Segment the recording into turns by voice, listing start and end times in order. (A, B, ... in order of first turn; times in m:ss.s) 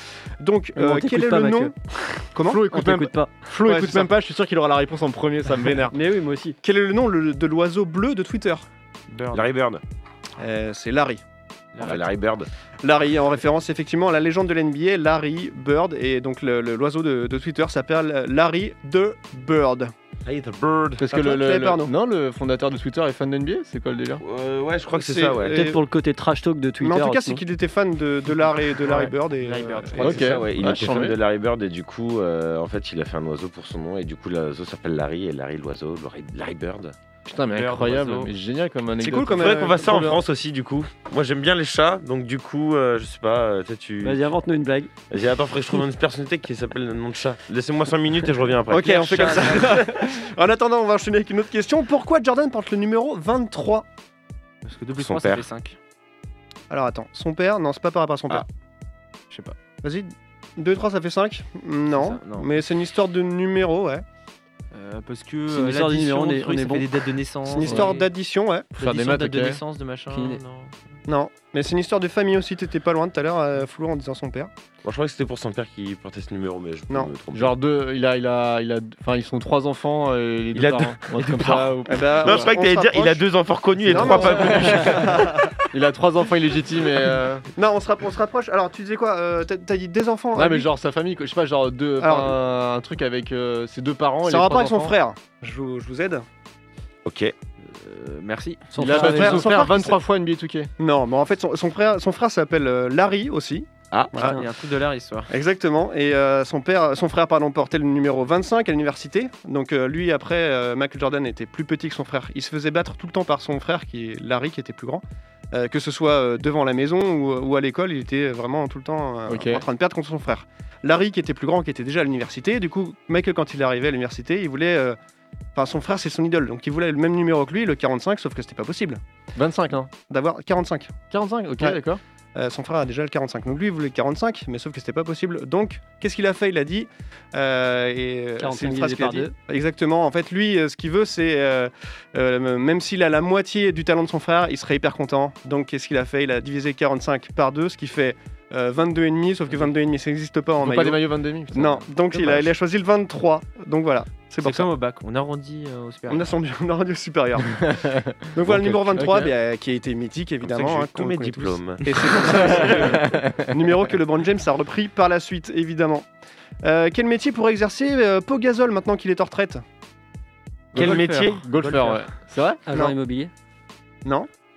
0:00.4-0:01.8 A
0:00.8-0:03.5 B
0:02.3-0:02.7 A
0:02.5-0:06.0 C
0:03.6-0:04.1 A
0:05.9-0:06.6 B
0:06.6-0:08.7 A
0:09.1-0:09.5 D
0:09.3-0:09.8 E
0:10.4-0:11.2 A
0:11.8-0:12.1 D
0:11.8-0:12.5 E
0:12.8-0:19.9 A
0:20.2-0:21.0 E
0:21.0-0:24.2 C
0:21.1-0:21.9 A
0:24.2-0:25.7 E
0:24.9-0:25.8 A
0:25.5-0:27.4 B
0:26.8-0:30.2 A
0:28.9-0:30.5 D
0:30.0-0:37.0 E
0:30.0-0:31.2 C
0:37.3-0:39.8 C
0:37.5-0:38.3 D
0:39.0-0:40.2 A
0:39.1-0:44.3 E
0:44.0-0:44.9 B
0:45.1-0:49.9 E
0:48.7-0:53.8 A
0:48.9-0:49.8 D
0:54.6-0:55.8 D
0:54.9-0:55.5 E
0:56.7-0:58.5 A
0:59.3-0:59.6 D
0:59.8-1:04.0 A
1:01.9-1:02.7 D
1:04.7-1:08.1 D
1:05.5-1:07.1 B
1:07.5-1:08.7 A
1:08.7-1:09.6 C
1:08.8-1:10.7 D
1:10.1-1:10.4 B
1:11.1-1:14.5 A
1:14.8-1:17.5 E
1:17.3-1:22.5 C
1:20.5-1:21.1 E
1:21.2-1:21.8 D
1:21.9-1:23.3 A
1:22.2-1:25.5 E
1:23.8-1:25.6 A
1:23.9-1:25.2 C
1:25.7-1:27.5 C
1:27.6-1:30.7 A
1:30.4-1:35.0 C
1:32.0-1:32.4 A
1:34.2-1:36.2 A
1:37.0-1:37.3 E
1:37.6-1:38.7 D
1:38.7-1:39.6 B
1:38.8-1:40.7 C
1:38.8-1:40.0 A
1:40.8-1:44.4 A
1:43.9-1:44.4 E
1:44.2-1:45.3 D
1:45.3-2:05.0 A
1:59.3-1:59.6 C
2:05.6-2:09.0 A
2:09.4-2:09.9 C
2:10.1-2:10.9 A
2:11.1-2:12.0 C
2:12.4-2:34.7 A
2:18.4-2:19.3 B
2:30.6-2:32.3 C
2:34.4-2:36.4 D
2:36.1-2:37.8 A
2:37.8-2:38.2 C
2:38.3-2:46.1 A
2:38.4-2:39.0 E
2:38.9-2:39.3 C
2:40.4-2:43.0 E
2:43.0-2:43.4 C
2:46.6-2:49.6 A
2:50.7-2:51.4 E
2:50.7-2:52.1 D
2:50.7-2:52.6 C
2:52.7-2:53.3 B